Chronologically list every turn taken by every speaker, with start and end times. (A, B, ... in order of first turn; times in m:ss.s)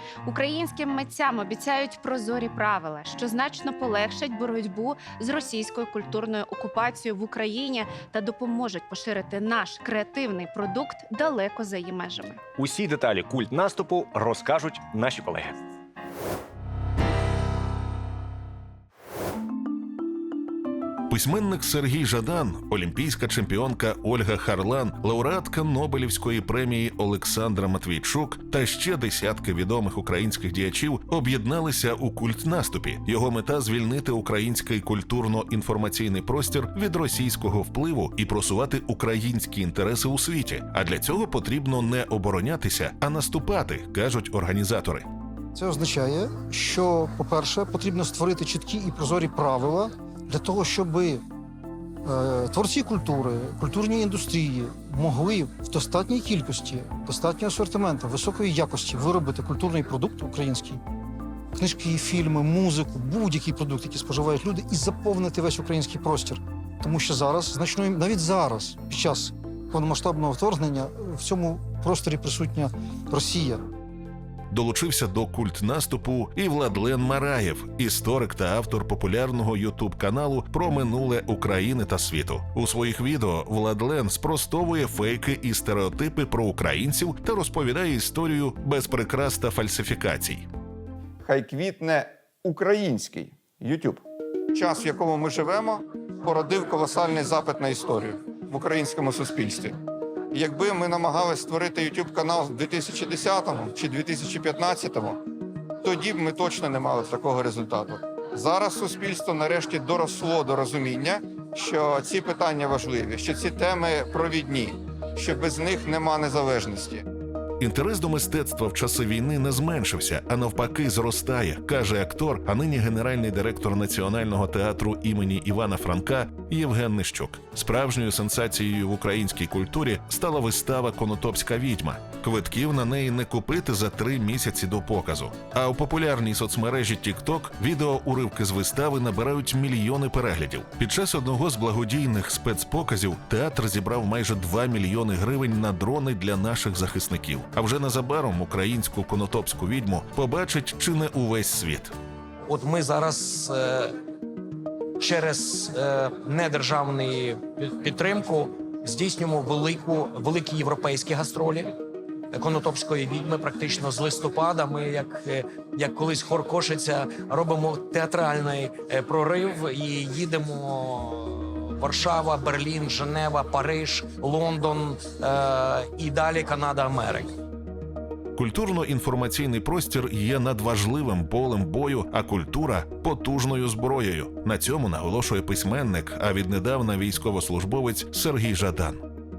0:00.3-0:12.4 A
0:12.6-0:15.6 B
0:21.1-0:45.1 C
0:45.5-0:51.2 D
0:52.0-1:00.8 D
1:01.5-1:13.6 D
1:14.5-1:30.5 C
1:31.2-1:34.0 E
1:34.5-1:39.8 E
1:40.3-1:45.2 E
1:45.8-1:57.0 E
1:57.6-2:31.9 C
2:32.5-2:33.9 F
2:35.0-2:41.7 F
2:42.3-2:57.3 F
2:58.4-3:09.0 C